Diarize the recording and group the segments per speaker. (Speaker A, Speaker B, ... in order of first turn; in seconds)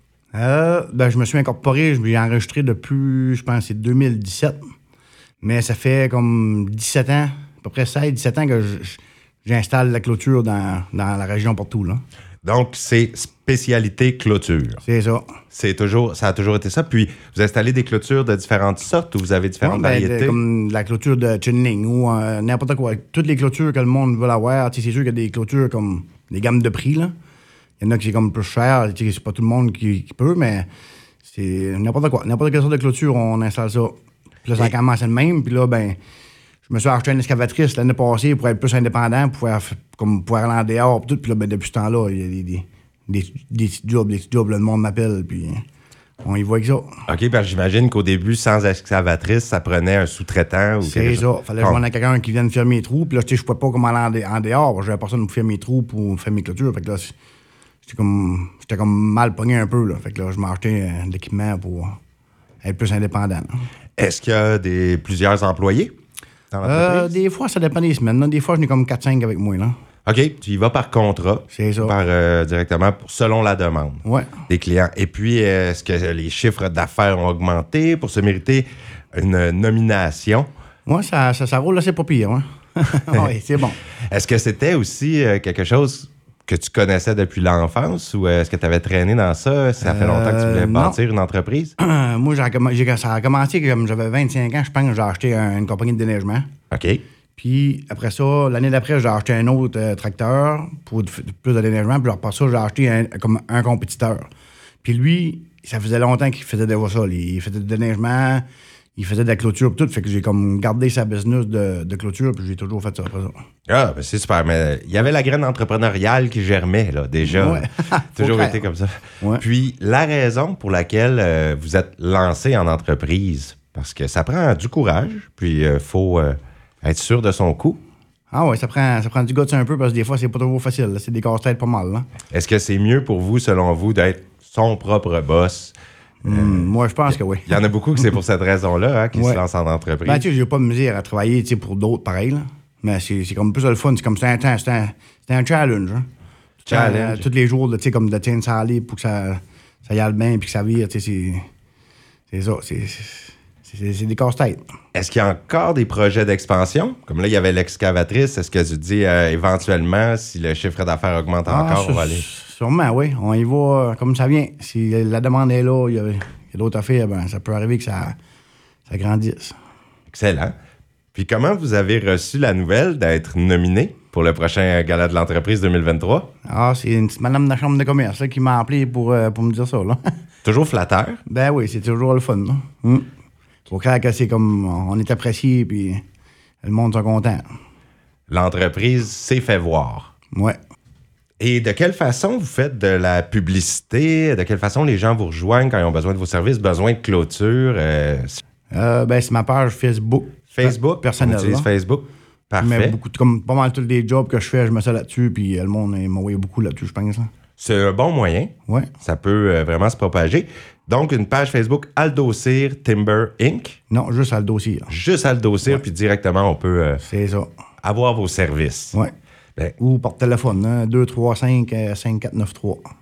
Speaker A: 0.3-4.6, 5.4-12.0, 14.8-15.3, 19.6-27.1, 27.8-30.7, 31.2-36.0, 36.7-45.6, 46.2-46.9, 50.8-57.1, 57.8-62.0, 62.6-63.5, 66.6-69.8, 71.5-71.9, 74.0-74.4, 80.8-83.8, 89.8-91.0, 91.8-96.5, 97.4-104.3, 104.8-108.4, 109.0-113.3, 117.2-118.6, 128.3-132.1, 136.2-137.6, 139.1-139.4, 140.0-146.1, 146.7-151.4, 152.3-154.6, 161.5-168.2, 168.9-169.6, 176.4-180.0, 181.2-183.1, 183.7-186.0, 186.6-187.4, 198.7-201.7, 202.6-207.3, 213.9-214.9, 217.0-217.5, 219.8-222.8
Speaker B: 12.4-14.8, 15.5-20.4, 47.1-51.8, 64.0-65.9, 66.5-67.2, 70.1-80.5, 84.1-91.8, 96.7-97.0, 113.7-127.8, 132.3-135.8, 136.2-136.7, 137.5-140.2, 146.7-147.2, 154.9-162.2, 170.1-170.5, 171.2-176.3, 180.4-181.2, 188.3-190.1, 191.4-198.4, 200.5-203.0, 207.6-213.8, 214.9-217.0, 217.8-219.0